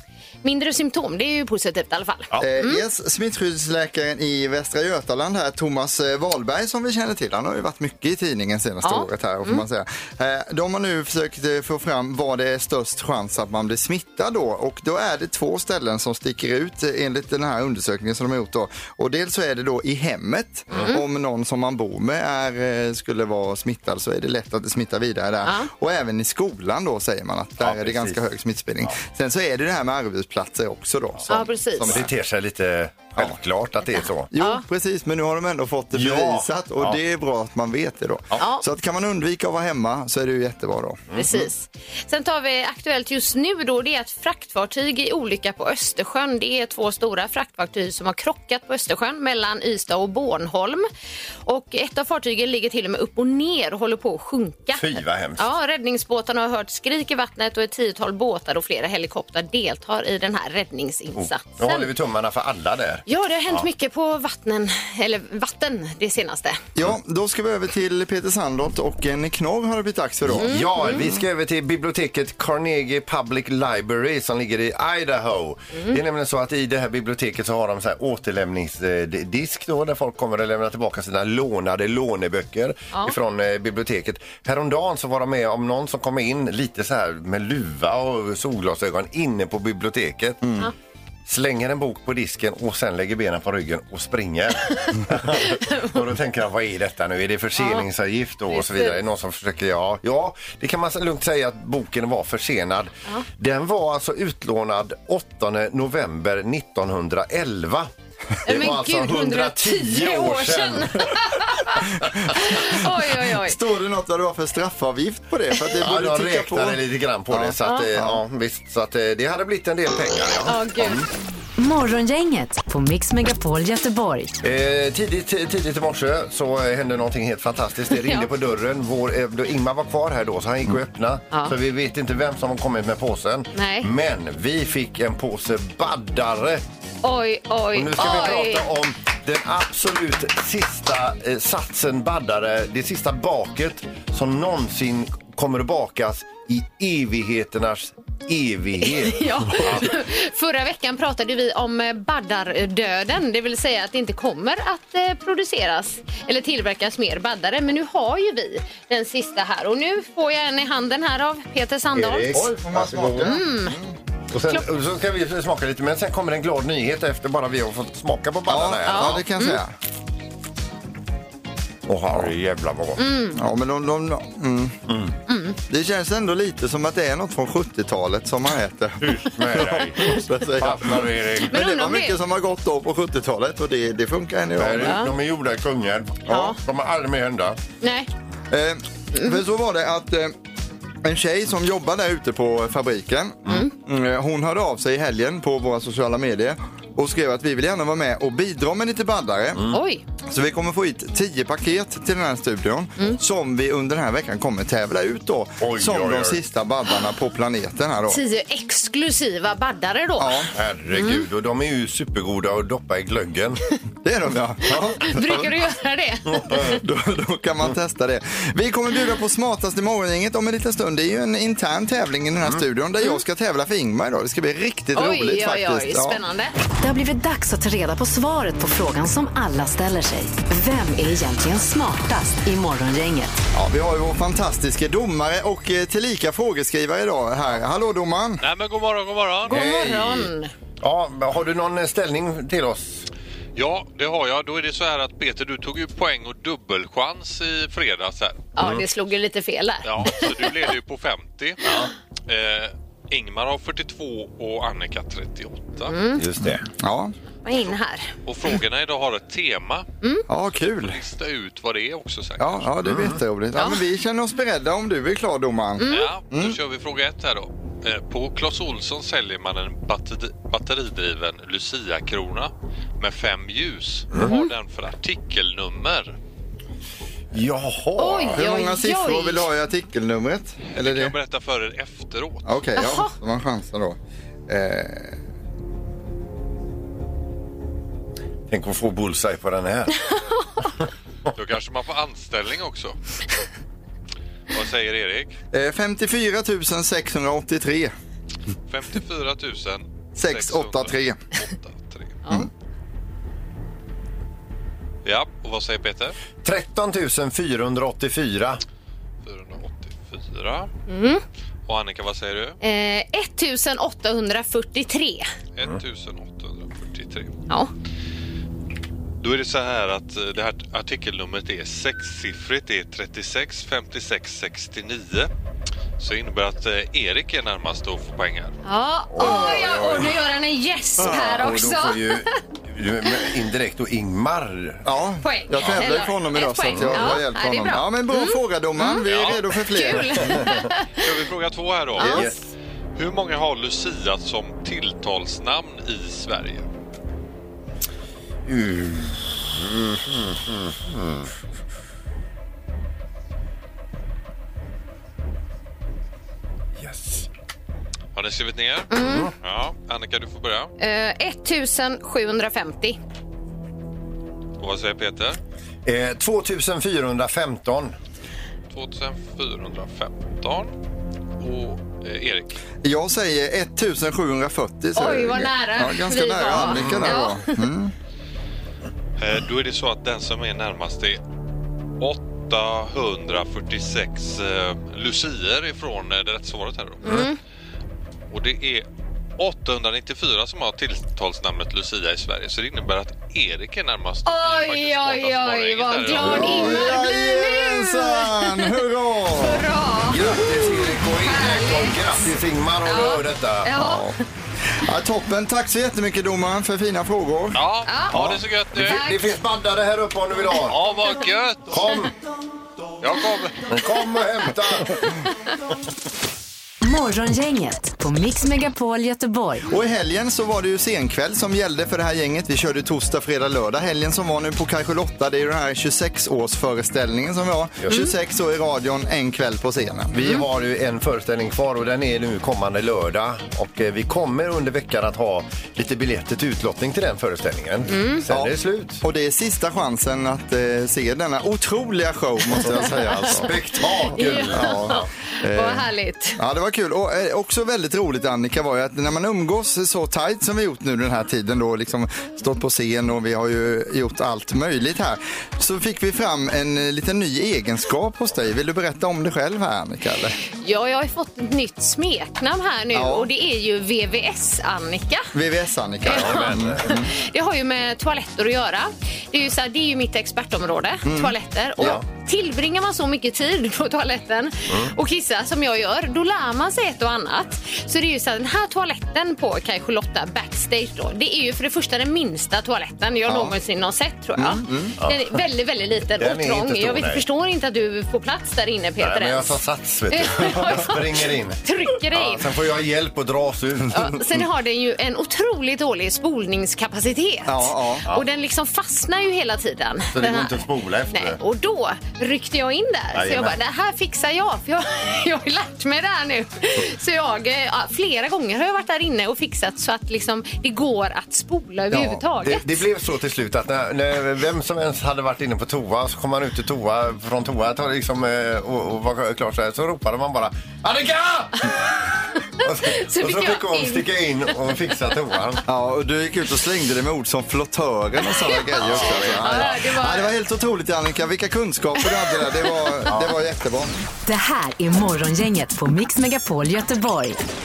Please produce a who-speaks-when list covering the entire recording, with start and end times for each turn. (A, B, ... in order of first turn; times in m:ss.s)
0:00.4-0:02.8 A
0:02.4-0:32.1 B
0:08.8-0:09.6 A
0:20.7-0:21.0 A
0:25.4-0:25.7 A
0:27.6-0:28.2 C
0:31.3-0:32.0 A
0:31.8-0:34.3 C
0:34.3-0:41.4 B
0:34.4-0:34.6 A
0:35.9-0:37.0 C
0:38.4-0:38.6 A
0:41.1-0:50.8 A
0:51.4-1:01.9 A
0:54.7-0:55.5 C
1:01.2-1:03.6 C
1:03.0-1:06.6 A
1:06.8-1:11.2 B
1:10.2-1:30.6 C
1:10.4-1:11.0 A
1:15.7-1:16.0 A
1:31.3-1:47.9 C
1:35.4-1:36.0 A
1:37.6-1:37.8 A
1:38.5-1:39.0 A
1:48.4-1:51.3 C
1:48.4-1:53.6 A
1:52.1-1:52.4 C
1:53.1-1:58.2 B
1:55.8-2:01.1 C
1:57.6-1:57.9 A
2:00.5-2:01.0 A
2:01.6-2:04.4 D
2:04.4-2:16.6 C
2:07.9-2:08.3 A
2:11.3-2:11.6 A
2:13.5-2:13.9 A
2:17.0-2:18.7 A
2:17.7-2:29.9 C
2:28.8-2:42.3 A
2:41.9-2:43.4 C
2:42.3-2:44.0 B
2:43.2-2:43.8 A
2:44.3-2:49.2 C
2:48.5-2:49.7 B
2:48.9-2:49.6 A
2:51.9-2:53.0 C
2:53.0-2:53.4 A
2:53.3-2:54.8 B
2:54.9-2:55.2 C
2:55.3-2:55.6 A
2:55.7-3:05.1 B
2:59.0-3:01.5 C
3:01.5-3:02.2 A
3:04.6-3:07.6 C
3:04.7-3:05.1 A
3:06.3-3:06.6 A
3:07.8-3:08.1 A
3:08.5-3:10.3 B
3:09.1-3:09.4 A
3:11.0-3:19.6 B
3:19.6-3:19.8 C
3:19.7-3:20.0 A
3:20.2-3:28.2 B
3:25.6-3:26.4 C
3:28.1-3:31.2 A
3:30.2-3:30.5 B
3:30.5-3:33.6 C
3:34.0-3:35.5 B
3:35.0-3:36.8 A
3:36.3-3:36.8 C
3:36.6-3:46.2 B
3:44.9-3:46.5 A
3:46.8-3:53.4 D
3:53.5-3:58.4 B
3:58.4-3:59.5 E
3:59.5-4:03.1 C
3:59.5-4:00.5 A
4:03.6-4:08.5 E
4:08.6-4:10.5 A
4:08.6-4:08.8 C
4:09.8-4:11.7 E
4:11.6-4:11.9 C
4:12.3-4:15.9 E
4:15.9-4:16.2 A
4:16.2-4:16.6 C
4:16.8-4:17.1 B
4:17.4-4:18.1 A
4:18.2-4:19.8 E
4:20.3-4:21.0 B
4:20.6-4:22.7 E
4:22.4-4:26.6 B
4:22.8-4:23.2 C
4:23.6-4:23.8 A
4:25.8-4:26.1 A
4:25.9-4:36.1 E
4:34.2-4:34.5 A
4:37.3-4:38.4 C
4:38.0-4:39.5 A
4:38.2-4:41.1 B
4:40.7-4:42.5 E
4:42.4-4:45.2 B
4:42.8-4:43.1 A
4:48.5-4:50.0 C
4:50.1-4:50.7 A
4:51.3-4:53.0 E
4:54.5-4:55.4 E
4:55.5-4:57.9 B
4:58.7-5:02.2 E
5:00.2-5:01.2 B
5:05.0-5:06.2 E
5:06.4-5:08.6 C
5:09.2-5:10.7 E
5:10.9-5:11.2 A
5:11.6-5:12.6 E
5:12.6-5:15.3 A
5:15.6-5:17.3 E
5:19.2-5:25.3 E
5:26.0-5:28.6 E
5:28.6-5:32.4 A
5:29.1-5:30.2 C
5:31.0-5:34.8 C
5:34.8-5:40.4 B
5:35.2-5:41.0 A
5:36.7-5:37.2 C
5:39.0-5:39.4 E
5:40.2-5:40.6 C
5:41.0-5:42.3 E
5:42.0-5:42.3 A
5:42.0-5:42.4 C
5:43.0-5:46.6 E
5:48.4-5:51.3 C
5:56.8-5:57.3 C
5:58.1-6:00.7 E
5:58.9-5:59.3 A
5:58.9-5:59.3 C
6:00.8-6:03.0 A
6:04.6-6:05.4 E
6:05.8-6:07.9 C
6:08.7-6:10.7 E
6:11.4-6:12.6 E
6:12.8-6:17.9 B
6:15.0-6:17.6 A
6:16.6-6:17.1 C
6:19.2-6:21.2 E
6:22.0-6:27.2 E
6:27.0-6:27.4 A
6:28.3-6:28.8 E
6:29.4-6:36.7 E
6:34.2-6:42.3 A
6:36.1-6:39.6 B
6:40.0-6:43.7 C
6:42.8-6:44.2 A
6:43.7-6:44.2 B
6:44.8-6:48.4 B
6:47.5-6:49.0 E
6:47.8-6:48.2 A
6:48.7-6:50.8 C
6:48.8-6:49.2 A
6:50.6-6:52.0 E
6:51.7-6:52.1 C
6:53.0-6:53.6 E
6:53.7-6:55.2 C
6:56.8-6:59.6 D
6:59.6-7:10.3 B
7:07.9-7:08.1 A
7:10.1-7:19.0 C
7:17.9-7:18.2 A
7:18.3-7:23.5 B
7:22.8-7:25.0 C
7:23.2-7:23.5 A
7:24.1-7:26.4 A
7:24.5-7:40.4 B
7:40.6-7:45.3 A
7:42.9-7:43.3 B
7:45.3-7:47.1 B
7:46.0-8:09.6 A
7:46.0-7:47.0 C
7:51.0-7:52.0 B
8:03.3-8:03.6 B
8:04.4-8:05.0 B
8:05.0-8:05.4 C
8:06.2-8:07.2 C
8:09.0-8:14.2 C
8:10.1-8:12.4 A
8:13.9-8:32.8 A
8:17.4-8:18.0 B
8:20.1-8:21.4 C
8:23.1-8:23.6 C
8:31.9-8:32.2 B
8:32.4-8:42.0 C
8:42.6-8:45.6 C
8:42.6-8:44.1 A
8:45.7-8:53.9 B
8:48.3-8:50.3 A
8:48.8-8:49.7 C
8:52.0-8:53.1 A
8:53.1-8:53.3 C
8:54.2-8:57.4 D